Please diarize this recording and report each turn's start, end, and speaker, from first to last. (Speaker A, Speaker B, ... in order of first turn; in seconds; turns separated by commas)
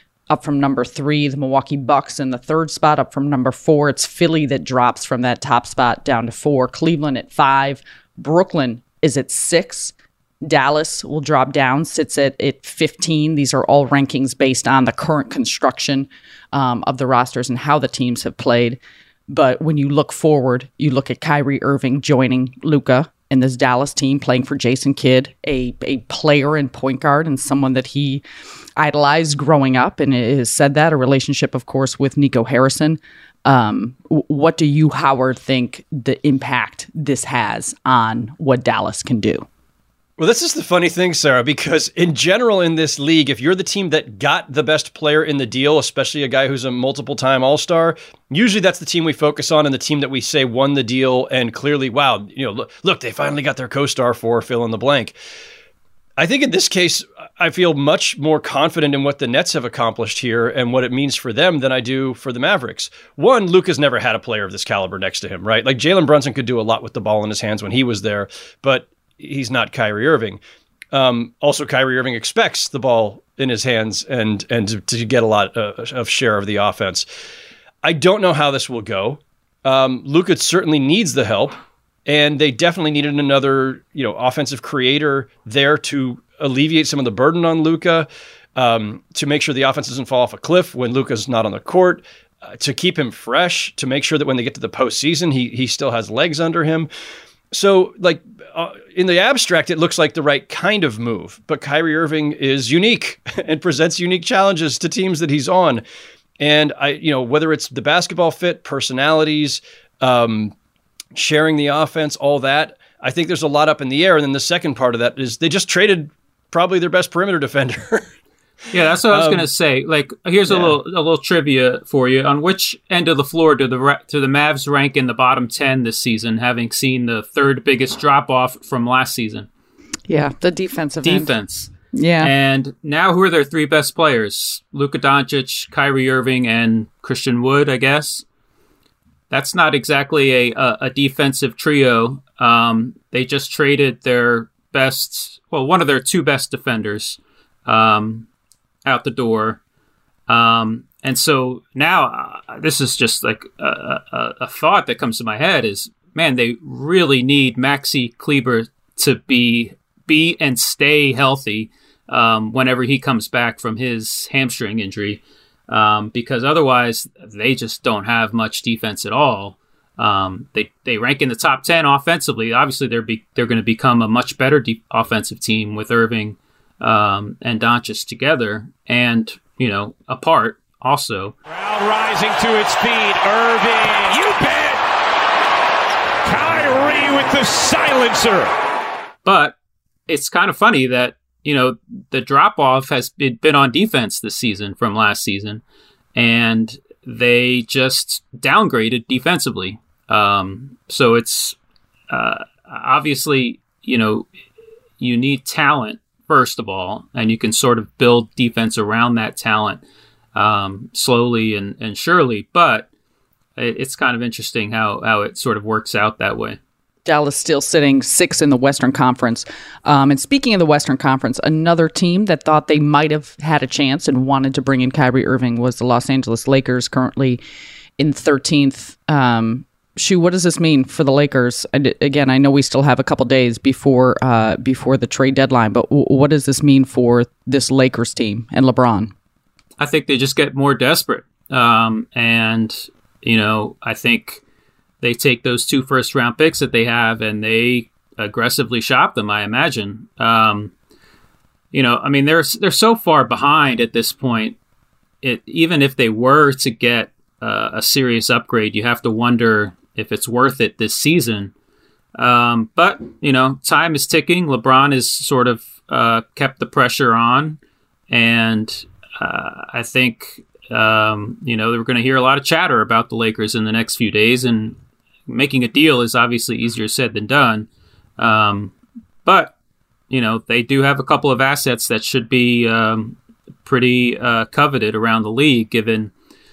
Speaker A: 0.3-28.2, Speaker A: 28.8-39.5, Speaker B: 40.2-55.2, Speaker B: 56.2-70.4, Speaker B: 70.9-77.1, Speaker B: 77.8-96.9, Speaker B: 97.5-105.8, Speaker B: 106.4-110.5, Speaker B: 111.2-118.1, Speaker C: 118.7-129.5, Speaker B: 119.1-119.5, Speaker B: 120.5-120.8, Speaker A: 130.1-131.3, Speaker C: 131.0-138.2, Speaker A: 131.9-132.3, Speaker C: 139.3-148.3, Speaker C: 148.9-149.6, Speaker C: 150.3-181.3, Speaker D: 181.5-184.8, Speaker D: 186.2-188.6, Speaker C: 189.2-189.6, Speaker C: 190.1-195.6, Speaker C: 196.2-201.6, Speaker C: 202.1-204.3, Speaker C: 205.0-209.8, Speaker C: 210.3-212.9, Speaker C: 213.6-216.6, Speaker A: 217.1-227.4, Speaker A: 228.0-239.1, Speaker C: 239.8-244.4, Speaker C: 245.0-250.7, Speaker C: 251.7-254.6, Speaker C: 255.2-261.5, Speaker C: 262.1-267.6, Speaker C: 268.1-278.7, Speaker C: 279.2-279.6, Speaker C: 280.1-286.1